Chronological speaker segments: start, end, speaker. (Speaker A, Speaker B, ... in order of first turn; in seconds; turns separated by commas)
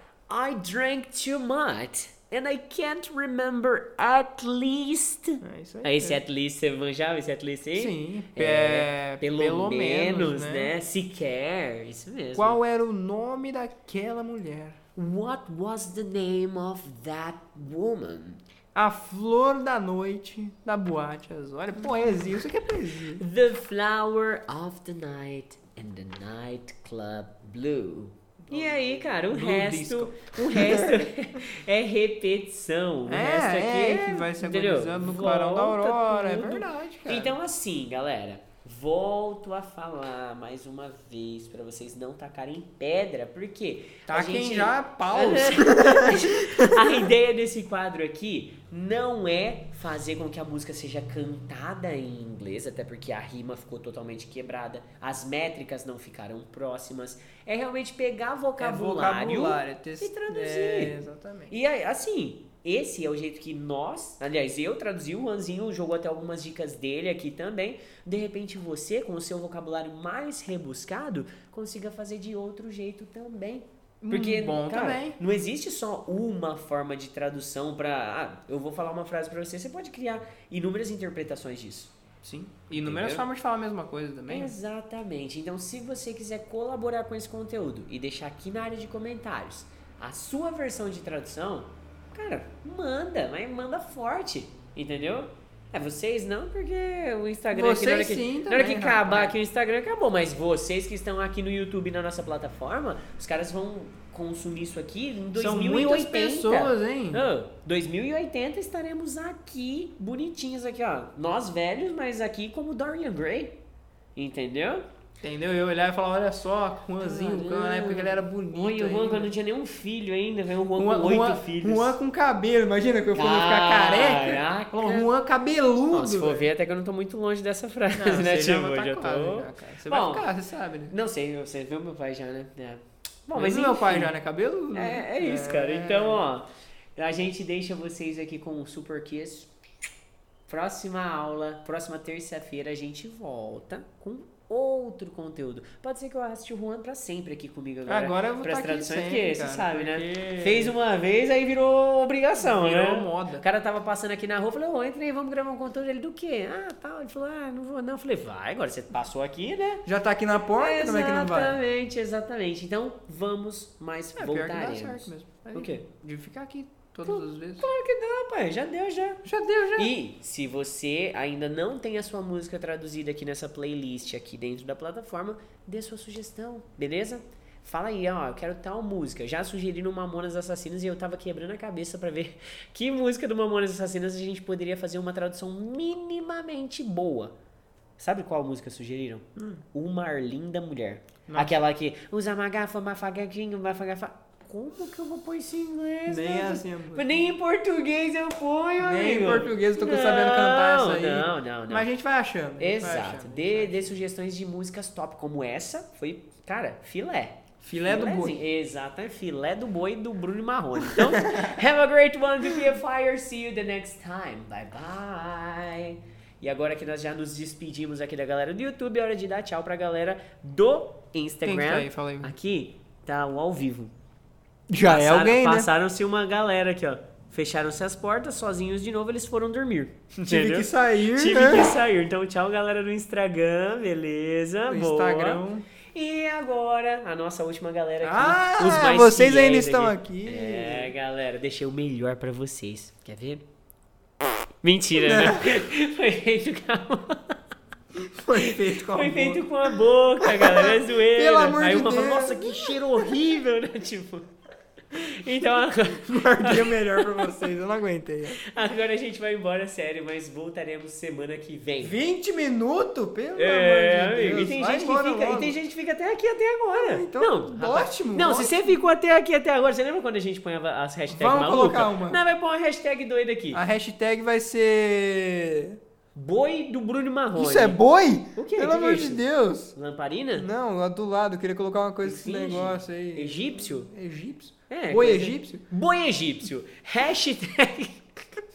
Speaker A: 0.3-12.6, Speaker B: 5.4-6.2, Speaker B: 7.8-10.7, Speaker B: 12.3-14.8, Speaker A: 15.0-18.4, Speaker B: 18.8-23.2, Speaker A: 23.2-61.0, Speaker B: 28.5-31.1, Speaker B: 33.1-37.4, Speaker B: 44.1-47.1, Speaker B: 58.6-61.5, Speaker A: 61.5-81.9, Speaker B: 74.0-75.2, Speaker B: 82.2-84.5, Speaker A: 82.7-83.2, Speaker A: 84.3-113.5, Speaker B: 97.5-99.4, Speaker B: 105.3-107.2, Speaker A: 114.2-114.9, Speaker B: 115.2-119.3, Speaker A: 117.0-122.0, Speaker B: 120.8-126.5, Speaker A: 123.2-125.1, Speaker A: 125.9-130.3, Speaker B: 127.9-130.9, Speaker A: 130.9-134.1, Speaker B: 133.3-136.2, Speaker A: 134.7-139.5, Speaker A: 140.5-159.8, Speaker B: 147.8-150.8, Speaker B: 152.4-153.4, Speaker B: 159.8-161.6, Speaker A: 160.6-165.8, Speaker B: 164.2-167.7, Speaker A: 167.1-187.3, Speaker B: 169.2-169.9, Speaker A: 188.0-201.9, Speaker B: 189.3-189.6, Speaker B: 191.3-191.6, Speaker B: 196.1-197.3, Speaker B: 198.8-204.0, Speaker A: 202.6-223.9, Speaker B: 207.6-208.4, Speaker B: 210.8-211.5, Speaker B: 221.4-222.3, Speaker B: 224.7-225.7, Speaker A: 224.8-235.4, Speaker B: 230.3-231.8, Speaker B: 234.7-235.7, Speaker A: 235.9-243.4, Speaker B: 238.0-240.9, Speaker A: 244.6-247.4, Speaker B: 245.0-245.7, Speaker B: 248.0-253.2, Speaker A: 248.4-254.3, Speaker A: 254.9-257.4, Speaker B: 255.3-258.4, Speaker A: 258.5-262.0, Speaker B: 261.8-265.6, Speaker A: 263.4-273.6, Speaker B: 266.7-268.8, Speaker B: 271.1-272.2, Speaker B: 273.5-275.8, Speaker A: 276.1-277.8, Speaker B: 277.3-279.8, Speaker A: 278.4-279.2, Speaker A: 279.8-280.5, Speaker B: 280.3-285.6, Speaker A: 282.0-283.9, Speaker A: 284.7-288.2